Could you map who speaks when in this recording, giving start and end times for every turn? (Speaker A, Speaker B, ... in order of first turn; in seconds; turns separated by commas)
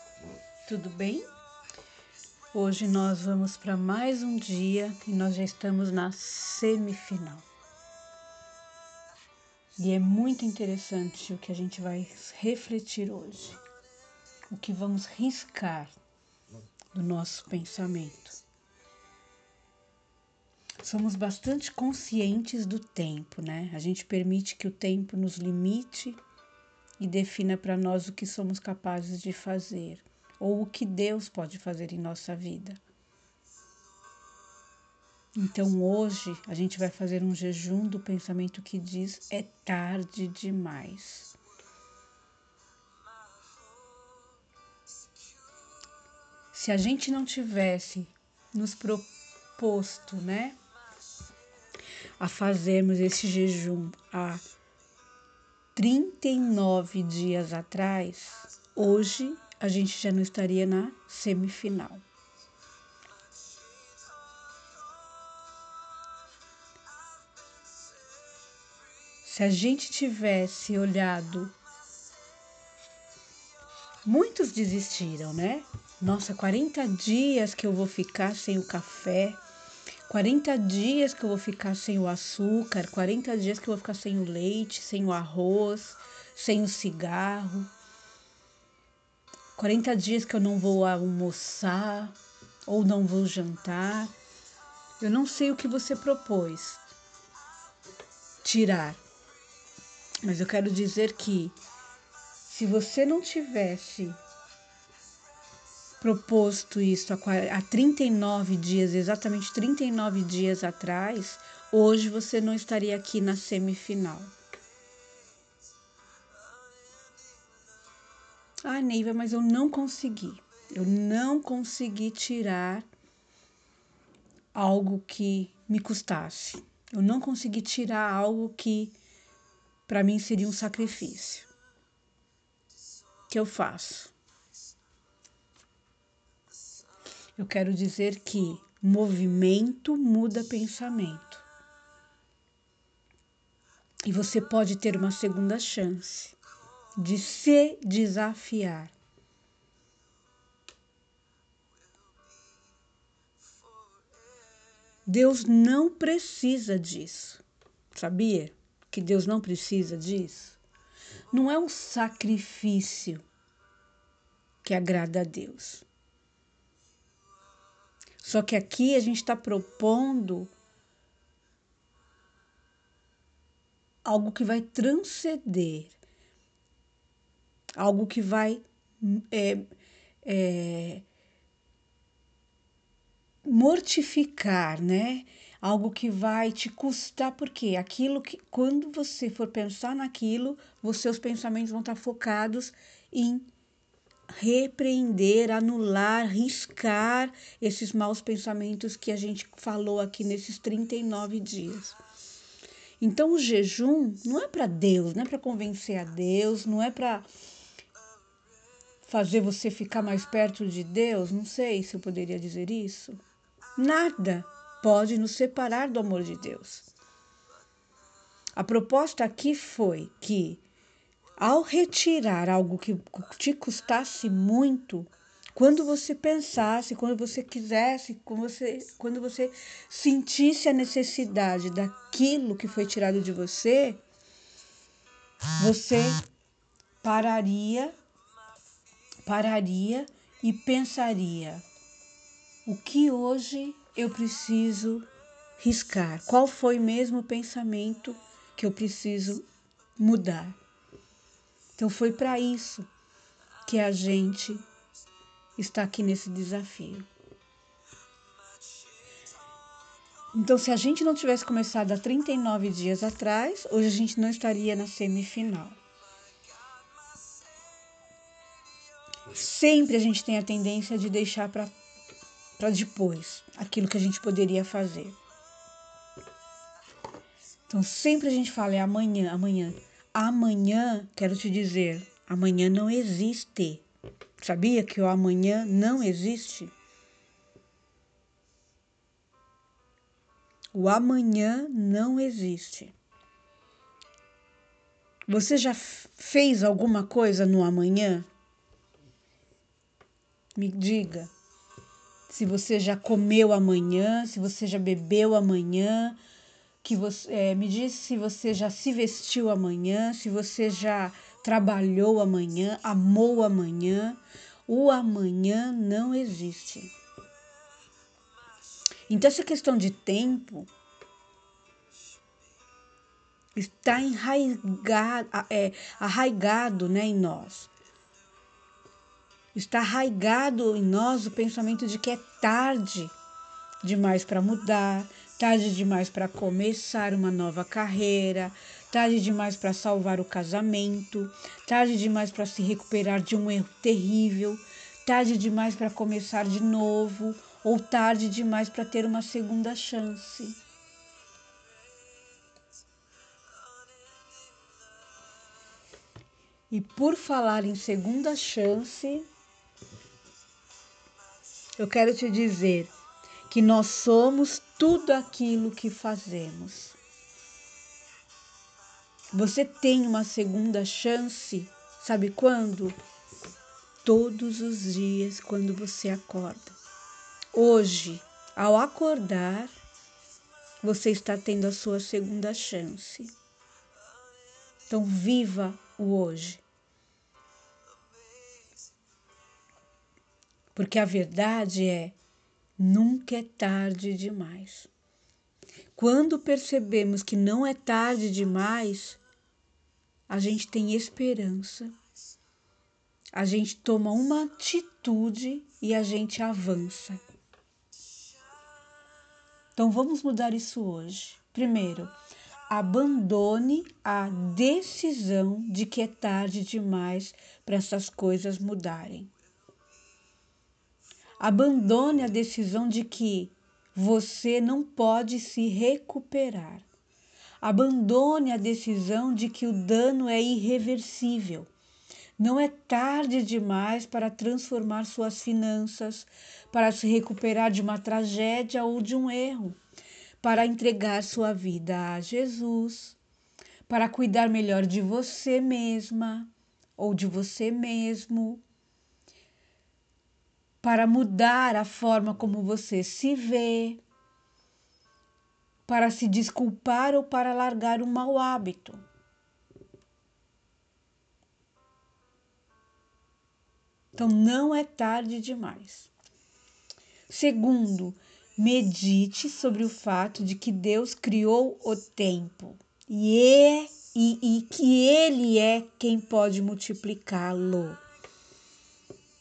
Speaker A: 0.7-1.3, Speaker A: 2.5-7.5, Speaker A: 9.8-13.6, Speaker A: 14.5-16.0, Speaker A: 16.9-18.4, Speaker A: 20.8-26.2, Speaker A: 27.0-32.8, Speaker A: 35.4-41.3, Speaker A: 46.5-50.6, Speaker A: 52.2-54.4, Speaker A: 55.8-62.0, Speaker A: 69.2-71.5, Speaker A: 74.0-79.4, Speaker A: 80.1-87.7, Speaker A: 89.6-94.1, Speaker A: 95.0-96.9, Speaker A: 98.4-99.0, Speaker A: 100.2-101.5, Speaker A: 102.5-104.2, Speaker A: 106.0-114.3, Speaker A: 118.6-122.9, Speaker A: 124.5-128.9, Speaker A: 129.9-131.5, Speaker A: 133.3-134.1, Speaker A: 137.4-141.5, Speaker A: 144.0-146.4, Speaker A: 147.0-148.9, Speaker A: 155.1-157.4, Speaker A: 157.9-160.6, Speaker A: 161.3-163.2, Speaker A: 164.6-165.8, Speaker A: 168.2-170.5, Speaker A: 174.1-176.0, Speaker A: 177.8-179.7, Speaker A: 180.2-181.1, Speaker A: 183.4-193.5, Speaker A: 194.3-202.0, Speaker A: 203.0-207.3, Speaker A: 209.0-213.2, Speaker A: 213.8-216.9, Speaker A: 218.6-220.6, Speaker A: 221.4-234.0, Speaker A: 235.6-236.2, Speaker A: 237.0-238.0, Speaker A: 239.3-241.7, Speaker A: 242.7-245.1, Speaker A: 245.6-249.4, Speaker A: 250.0-250.6, Speaker A: 251.8-252.9, Speaker A: 253.7-254.6, Speaker A: 255.6-257.1, Speaker A: 260.3-265.8, Speaker A: 269.3-271.8, Speaker A: 272.6-275.2, Speaker A: 277.7-283.8, Speaker A: 284.4-286.7, Speaker A: 290.7-292.9, Speaker A: 295.3-298.3, Speaker A: 300.6-301.3, Speaker A: 302.3-306.2, Speaker A: 306.8-316.9, Speaker A: 319.1-320.7, Speaker A: 323.6-327.7, Speaker A: 329.5-333.1, Speaker A: 333.8-350.6, Speaker A: 356.7-359.3, Speaker A: 361.8-362.9, Speaker A: 363.5-367.0, Speaker A: 369.3-373.0, Speaker A: 374.0-376.8, Speaker A: 377.5-379.8, Speaker A: 380.8-383.3, Speaker A: 384.9-386.6, Speaker A: 390.8-392.2, Speaker A: 392.8-394.9, Speaker A: 395.9-399.2, Speaker A: 400.3-401.9, Speaker A: 403.3-407.2, Speaker A: 409.8-412.1, Speaker A: 412.7-419.3, Speaker A: 421.4-426.9, Speaker A: 427.6-431.7, Speaker A: 432.4-439.8, Speaker A: 440.4-443.2, Speaker A: 443.9-448.6, Speaker A: 450.8-454.0, Speaker A: 455.9-459.0, Speaker A: 464.1-466.1, Speaker A: 467.3-478.0